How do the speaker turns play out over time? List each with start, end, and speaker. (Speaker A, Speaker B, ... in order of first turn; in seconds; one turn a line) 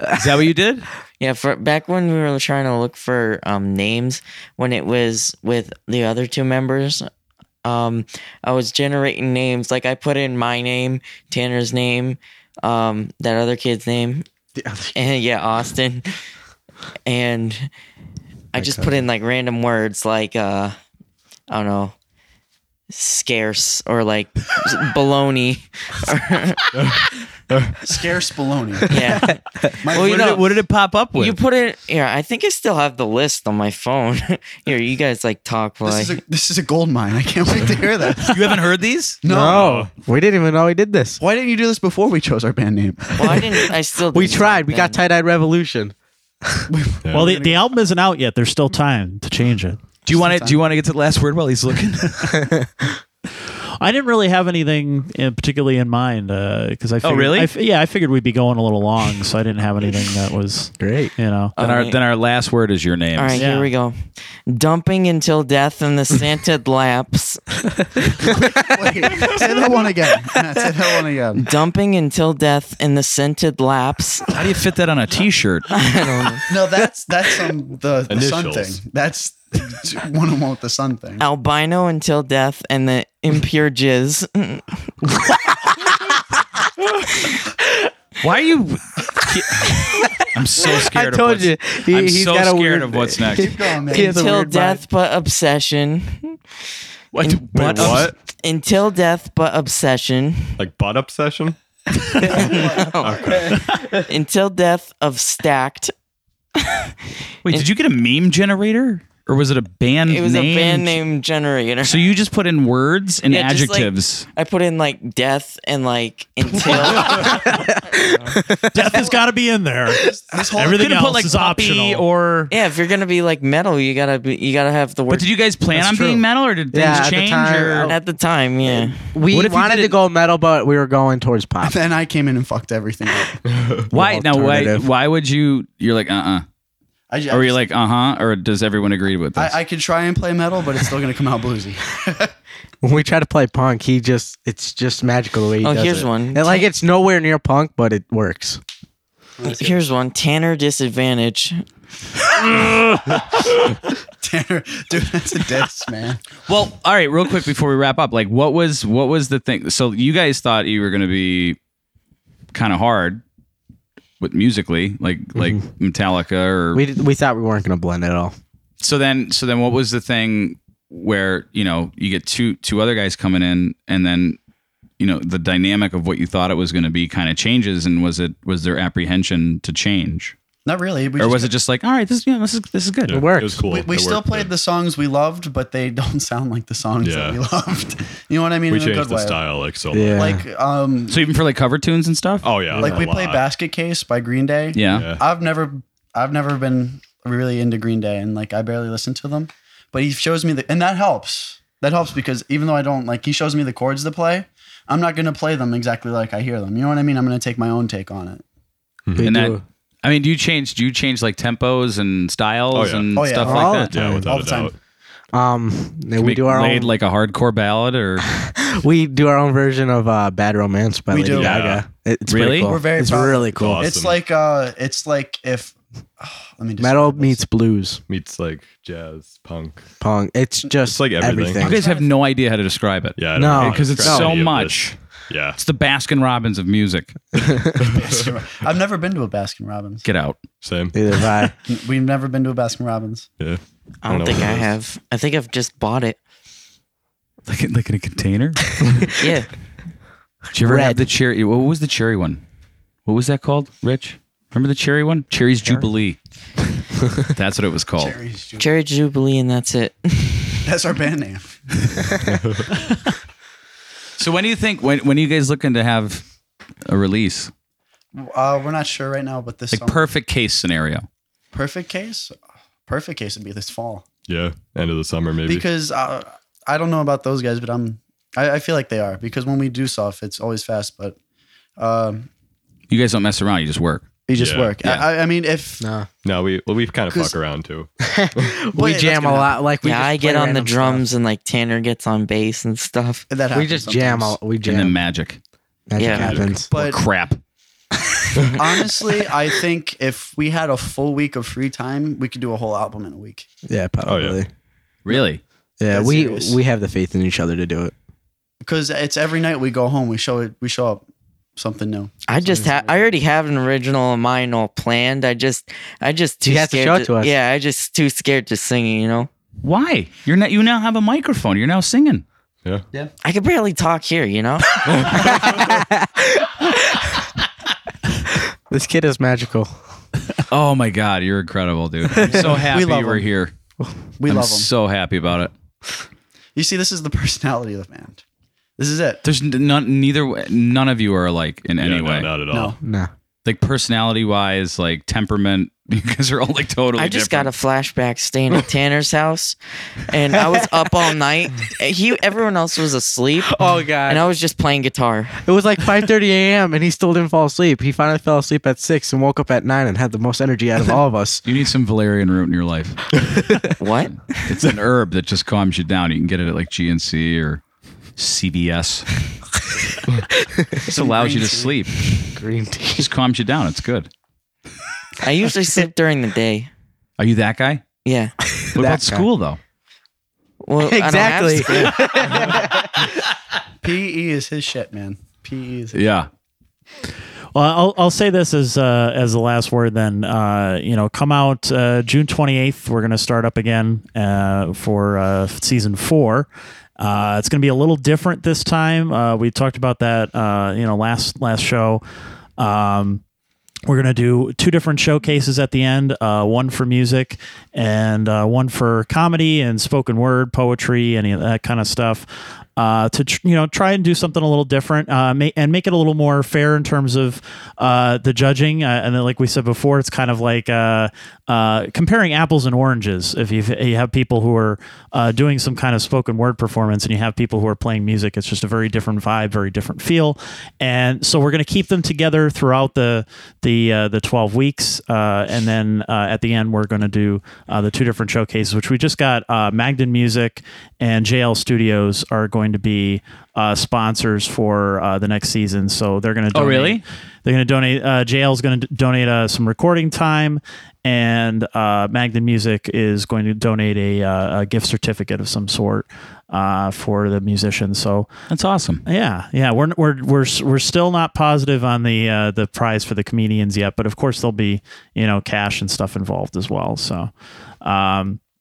Speaker A: 0.1-0.9
Speaker B: 1.2-7.1
Speaker B: 7.6-14.3
Speaker C: 14.6-14.9
Speaker B: 14.9-16.1
Speaker B: 17.1-17.7
Speaker B: 18.5-20.8
Speaker C: 18.6-19.0
Speaker B: 21.5-21.9
Speaker B: 22.9-26.7
Speaker D: 27.5-27.8
Speaker E: 27.8-28.9
Speaker B: 28.9-30.5
Speaker C: 29.2-29.6
Speaker E: 29.8-30.4
Speaker A: 29.9-31.4
Speaker B: 31.1-36.2
Speaker E: 35.8-38.6
Speaker A: 38.2-39.2
Speaker E: 39.2-39.9
Speaker C: 39.3-41.2
Speaker D: 39.5-39.9
Speaker E: 41.2-43.5
Speaker B: 43.2-45.0
Speaker C: 44.1-45.9
Speaker E: 46.7-47.6
Speaker D: 47.0-47.3
Speaker F: 47.1-49.8
Speaker E: 50.1-50.6
Speaker A: 50.1-52.5
Speaker C: 52.4-52.6
Speaker F: 53.8-61.5
Speaker A: 57.0-57.5
Speaker C: 60.8-61.1
Speaker B: 61.6-62.0
Speaker A: 61.6-63.5
Speaker B: 63.1-67.6
Speaker F: 63.3-63.7
Speaker E: 68.2-71.5
Speaker B: 71.4-74.4
Speaker A: 74.3-75.7
Speaker B: 75.7-76.5
Speaker E: 76.5-81.3
Speaker D: 78.1-78.8
Speaker B: 81.2-84.9
Speaker C: 85.3-85.7
Speaker A: 88.2-93.5
Speaker C: 89.5-94.8
Speaker E: 93.3-94.5
Speaker B: 93.9-96.4
Speaker A: 97.1-98.2
Speaker B: 97.2-100.6
Speaker D: 97.5-98.1
Speaker D: 100.6-101.6
Speaker B: 102.2-105.9
Speaker E: 102.3-103.6
Speaker D: 102.3-103.7
Speaker B: 106.6-106.9
Speaker A: 107.4-111.0
Speaker B: 110.1-112.0
Speaker A: 111.8-114.3
Speaker B: 113.3-117.5
Speaker C: 117.1-119.0
Speaker F: 118.7-122.5
Speaker E: 118.8-119.1
Speaker E: 119.9-120.8
Speaker A: 120.6-122.5
Speaker B: 122.5-125.3
Speaker A: 125.1-127.9
Speaker F: 125.7-126.2
Speaker C: 126.7-128.0
Speaker B: 127.9-129.1
Speaker C: 128.7-131.7
Speaker A: 129.3-130.0
Speaker E: 131.6-133.4
Speaker D: 133.5-133.9
Speaker C: 133.9-134.9
Speaker A: 133.9-136.4
Speaker E: 137.1-137.6
Speaker A: 137.3-139.6
Speaker E: 139.4-142.3
Speaker C: 142.8-148.6
Speaker B: 145.6-146.7
Speaker E: 149.4-149.8
Speaker B: 149.4-151.6
Speaker A: 152.6-153.2
Speaker E: 153.1-153.6
Speaker E: 154.1-156.2
Speaker A: 156.5-161.6
Speaker A: 162.5-163.2
Speaker A: 164.2-166.8
Speaker C: 165.3-165.6
Speaker C: 166.7-168.4
Speaker A: 168.8-174.4
Speaker A: 175.0-180.3
Speaker E: 180.7-181.5
Speaker A: 181.2-183.2
Speaker D: 183.1-184.5
Speaker C: 183.1-183.6
Speaker E: 183.7-189.4
Speaker D: 187.0-187.4
Speaker D: 188.7-190.2
Speaker C: 189.9-190.4
Speaker E: 190.1-191.2
Speaker A: 191.1-192.5
Speaker D: 192.4-193.4
Speaker E: 192.8-208.4
Speaker A: 194.8-195.1
Speaker D: 194.9-195.2
Speaker D: 209.1-209.3
Speaker C: 209.2-209.6
Speaker A: 209.2-213.9
Speaker D: 212.7-213.3
Speaker E: 213.2-214.7
Speaker C: 213.4-214.0
Speaker D: 213.9-214.8
Speaker C: 215.3-216.9
Speaker A: 216.2-218.3
Speaker C: 218.3-223.9
Speaker E: 221.1-221.7
Speaker D: 221.3-221.9
Speaker A: 222.3-222.8
Speaker E: 222.6-227.4
Speaker D: 223.5-224.2
Speaker C: 226.8-228.0
Speaker D: 228.1-229.9
Speaker C: 230.0-231.8
Speaker D: 230.8-231.7
Speaker A: 231.6-237.3
Speaker E: 231.6-232.1
Speaker D: 233.2-235.6
Speaker C: 233.3-234.4
Speaker D: 237.8-238.3
Speaker E: 237.9-240.1
Speaker A: 240.0-240.4
Speaker D: 240.6-241.0
Speaker C: 240.9-241.6
Speaker E: 241.7-243.3
Speaker D: 243.4-244.7
Speaker B: 244.0-246.2
Speaker A: 247.5-248.8
Speaker C: 248.8-249.3
Speaker B: 249.2-249.5
Speaker A: 250.5-252.4
Speaker C: 250.6-251.1
Speaker A: 253.1-256.2
Speaker A: 257.3-258.2
Speaker E: 258.0-258.7
Speaker B: 258.6-260.7
Speaker E: 260.6-261.8
Speaker D: 262.3-262.7
Speaker A: 264.2-266.2
Speaker A: 266.9-267.5
Speaker E: 268.1-270.1
Speaker A: 269.7-271.1
Speaker E: 271.5-274.1
Speaker D: 274.3-275.7
Speaker E: 275.5-281.2
Speaker E: 281.8-282.3
Speaker A: 282.9-284.1
Speaker E: 284.3-285.9
Speaker D: 284.4-284.8
Speaker A: 284.8-285.1
Speaker C: 285.8-286.1
Speaker D: 286.2-288.4
Speaker E: 287.1-287.4
Speaker C: 288.0-291.0
Speaker E: 288.7-289.6
Speaker B: 289.8-293.3
Speaker E: 293.3-294.4
Speaker C: 293.5-295.0
Speaker A: 294.7-295.4
Speaker C: 295.9-296.7
Speaker B: 296.0-296.3
Speaker D: 296.1-296.5
Speaker E: 296.2-297.0
Speaker A: 296.7-297.4
Speaker E: 298.5-303.5
Speaker C: 303.7-304.5
Speaker D: 304.1-304.4
Speaker A: 305.1-305.4
Speaker C: 305.8-307.9
Speaker E: 305.9-306.6
Speaker E: 308.6-313.2
Speaker B: 312.3-319.3
Speaker C: 316.4-317.3
Speaker A: 319.6-322.2
Speaker B: 323.2-325.4
Speaker C: 325.2-327.2
Speaker C: 328.7-329.8
Speaker A: 330.5-333.5
Speaker E: 332.2-333.3
Speaker E: 334.2-334.7
Speaker A: 334.3-335.5
Speaker E: 336.6-338.2
Speaker E: 338.8-339.2
Speaker A: 339.2-342.3
Speaker D: 341.8-342.8
Speaker E: 342.5-342.8
Speaker C: 342.8-343.1
Speaker A: 343.4-347.5
Speaker B: 347.0-355.4
Speaker C: 353.5-354.3
Speaker C: 355.4-361.4
Speaker A: 361.4-363.2
Speaker C: 363.3-363.7
Speaker B: 363.8-364.2
Speaker A: 364.3-367.6
Speaker A: 368.2-369.2
Speaker C: 370.4-370.8
Speaker A: 370.9-372.4
Speaker E: 370.9-371.8
Speaker C: 372.4-373.1
Speaker A: 373.0-374.1
Speaker B: 375.2-376.7
Speaker A: 377.2-377.8
Speaker B: 378.1-378.4
Speaker C: 378.6-379.3
Speaker A: 378.7-379.6
Speaker B: 380.6-382.4
Speaker C: 380.8-383.1
Speaker E: 382.3-382.8
Speaker E: 383.8-386.0
Speaker A: 385.9-386.3
Speaker F: 387.6-402.0
Speaker F: 402.6-403.2
Speaker F: 403.9-458.3
Speaker A: 446.5-447.0
Speaker A: 458.5-459.0
Speaker F: 459.1-467.3
Speaker F: 467.8-468.4